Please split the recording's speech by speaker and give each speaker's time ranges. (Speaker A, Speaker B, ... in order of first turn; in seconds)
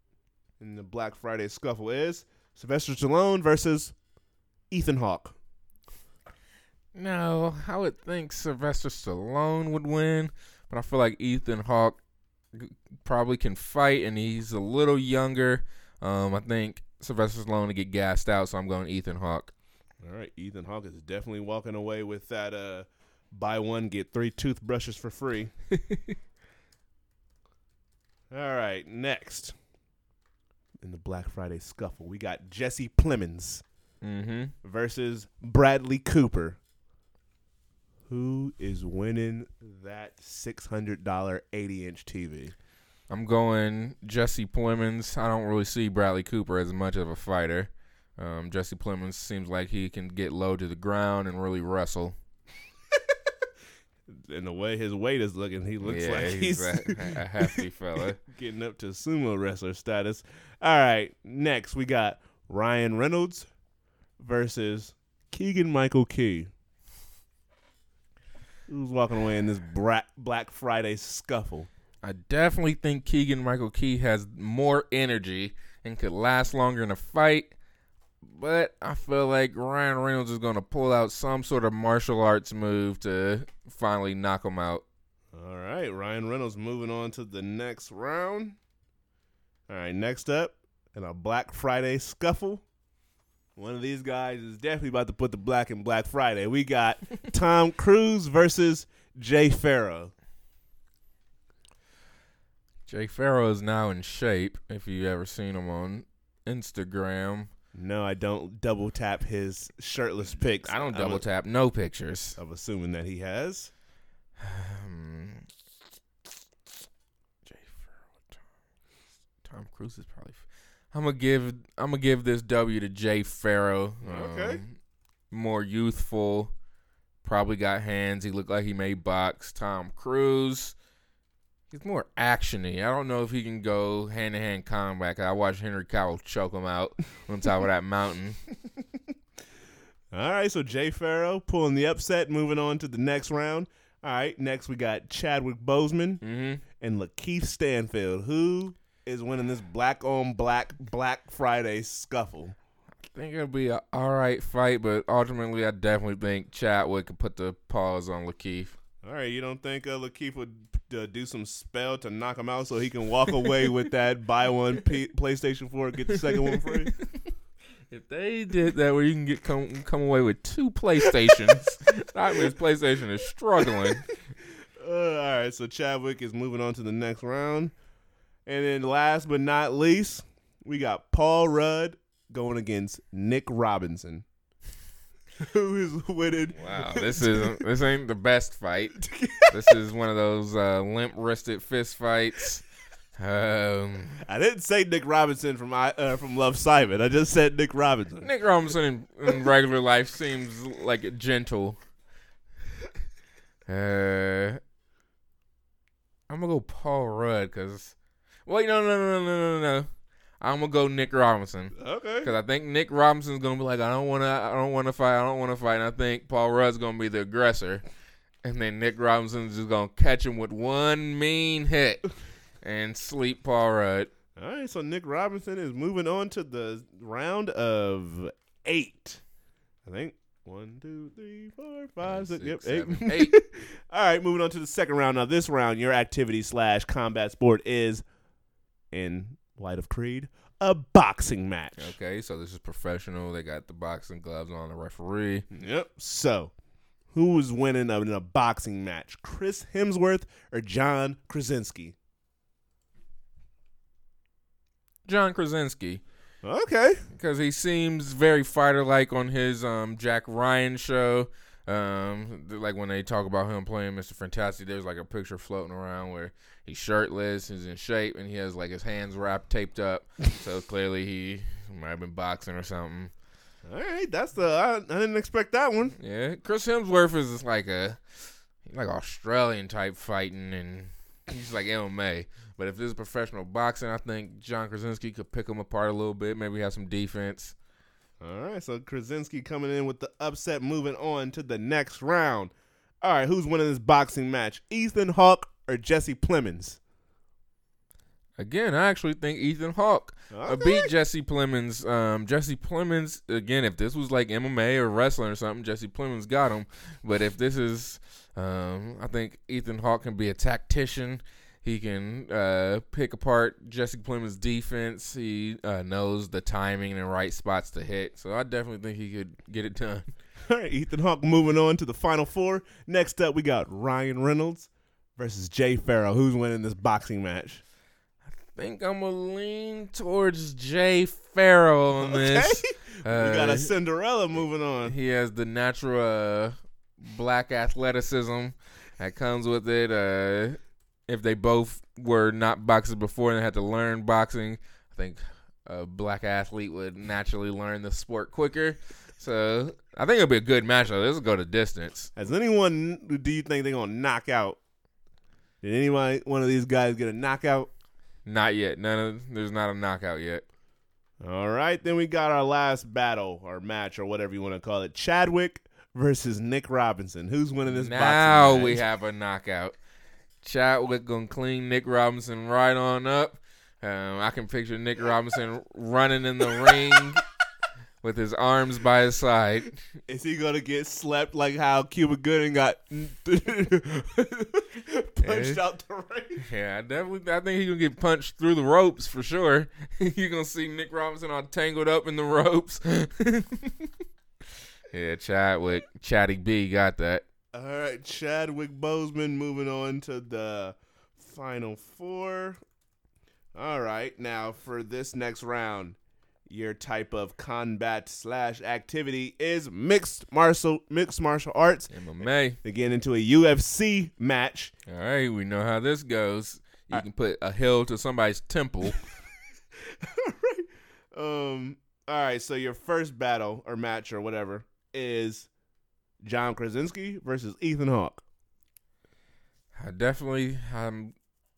Speaker A: 0.6-4.0, 4.7-5.3, 20.0-25.5, 28.3-29.5, 30.8-33.6, 34.6-36.6, 38.1-42.5, 54.1-63.5, 64.2-66.5, 68.7-71.7, 85.3-88.6, 89.7-92.6, 93.5-100.1, 107.7-111.2, 112.3-113.7, 124.0-124.6, 140.1-146.2, 146.7-152.6, 159.0-166.9, 174.8-177.7, 178.4-184.2, 185.4-187.6, 189.0-189.7, 194.2-198.3, 211.8-212.3, 224.3-229.2, 229.8-238.0, 238.9-241.9, 245.5-246.5, 247.1-251.9, 256.4-257.0, 273.6-276.0, 288.2-296.8, 300.3-300.9, 320.5-327.6, 332.0-334.9, 352.1-354.6, 355.6-357.7, 361.2-368.8, 380.1-386.5, 397.5-402.6, 403.5-411.9, 412.6-414.7, 419.8-425.5, 426.2-428.2
Speaker B: 6.9-12.0, 12.5-19.5, 34.0-34.5, 43.1-52.1, 55.8-58.2, 72.0-77.5, 78.2-84.8, 102.9-107.5, 110.6-112.4, 114.4-115.5, 117.5-118.4, 119.4-124.7, 125.3-126.5, 127.2-130.7, 131.7-138.4, 146.2-146.6, 153.0-158.7, 166.4-166.9, 167.9-174.1, 186.5-192.6, 193.2-194.2, 198.2-201.8, 203.7-204.6, 206.3-207.9, 208.4-209.9, 210.4-217.8, 218.4-222.0, 222.6-224.1, 232.0-233.3, 241.8-245.4, 255.1-256.0, 257.1-273.1, 276.0-278.0, 278.6-287.5, 298.4-320.1, 328.4-333.7, 334.9-352.1, 358.2-360.4, 367.7-369.8, 370.4-377.2, 378.0-379.8, 385.2-385.6, 386.4-393.9, 394.9-397.2, 411.9-412.6, 414.9-419.0, 429.7-431.1